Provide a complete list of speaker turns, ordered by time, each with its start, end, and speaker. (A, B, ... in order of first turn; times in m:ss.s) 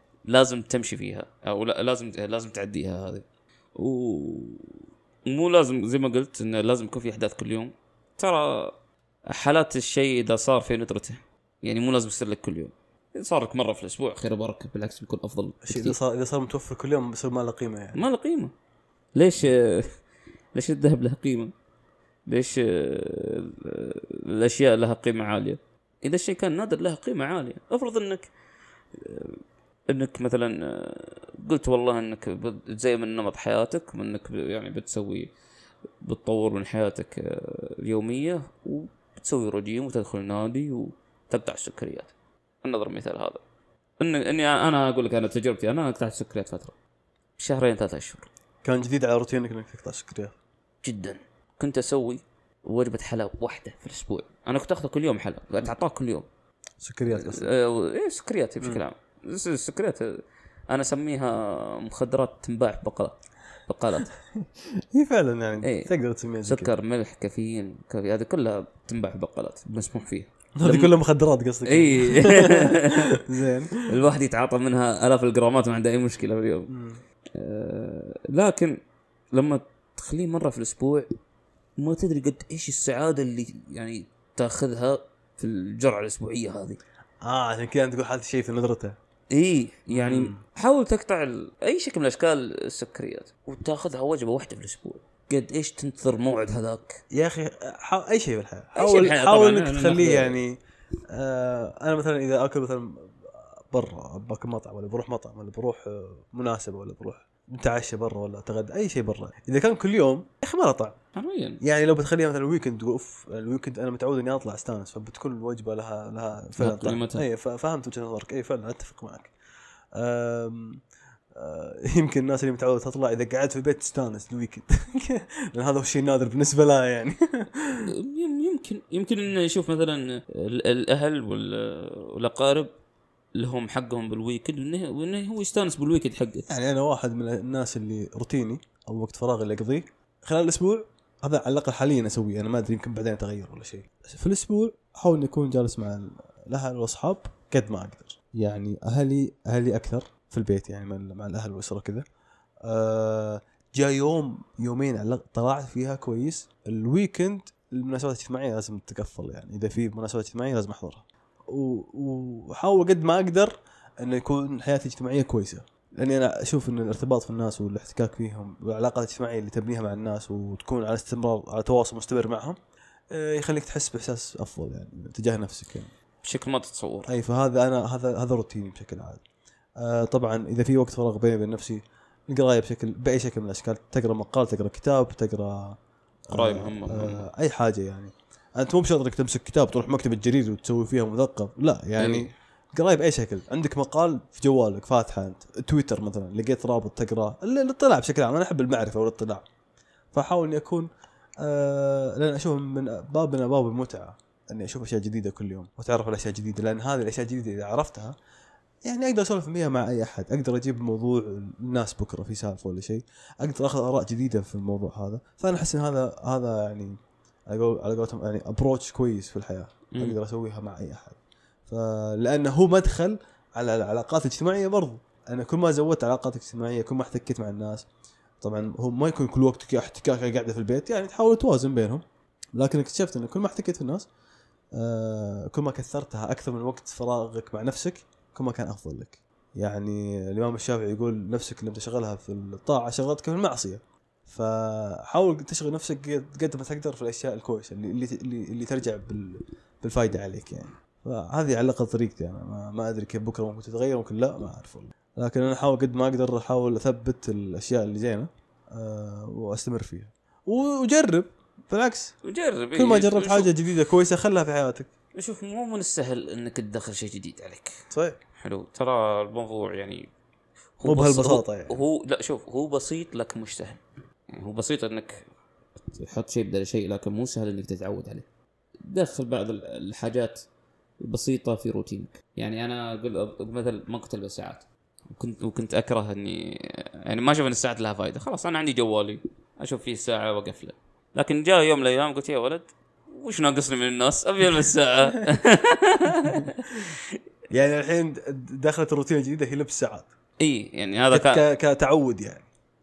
0:00.3-0:08.7 A
0:09.3-0:16.0 A
0:15.6-0:18.0 B
0:17.9-0:18.5 A
0:19.1-0:20.0 A
0:20.5-0:21.5 A
0:22.2-0:28.3 A
0:28.9-0:35.3 A
0:36.0-0:43.4 A
0:44.0-0:46.7 A
0:47.4-0:48.3 A
0:48.6-0:50.3 B
0:50.8-0:56.3 A
0:56.8-0:57.5 B
0:57.1-1:04.1 A
1:04.9-1:06.7 B
1:05.6-1:05.9 A
1:06.4-1:10.9 A
1:10.6-1:13.8 B
1:11.6-1:13.2 A
1:13.8-1:16.7 A
1:16.7-1:17.0 B
1:17.3-1:18.8 A
1:19.3-1:21.1 A
1:21.8-1:26.8 A
1:27.2-1:29.0 B
1:29.3-1:37.0 A
1:29.9-1:30.4 B
1:37.1-1:40.6 B
1:38.8-1:40.4 A
1:41.1-1:51.0 B
1:51.1-1:51.6 A
1:51.6-1:59.3 B
1:56.6-1:57.2 A
1:59.9-2:00.8 B
2:01.3-2:07.9 B
2:07.9-2:12.7 A
2:13.3-2:16.4 A
2:16.5-2:32.0 B
2:32.6-2:52.6 B
2:53.1-2:55.9 B
2:56.2-2:57.1 A
2:57.0-2:59.2 B
2:59.8-3:05.8 B
3:06.3-3:19.4 B
3:06.3-3:07.2 A
3:12.0-3:12.3 A
3:20.1-3:20.9 B
3:21.4-3:28.1 B
3:28.8-3:37.0 B
3:37.5-3:47.8 B
3:48.4-3:52.0 B
3:52.6-3:54.1 B
3:54.7-4:22.1 B
4:22.2-4:23.5 A
4:22.7-4:24.9 B
4:25.1-4:27.8 A
4:27.9-4:28.2 B
4:28.4-4:30.1 A
4:30.8-4:35.3 A
4:30.8-4:31.8 B
4:35.9-4:38.2 A
4:38.8-4:40.4 A
4:41.0-4:57.2 A
4:57.5-5:00.1 B
5:00.4-5:01.4 A
5:01.1-5:02.5 B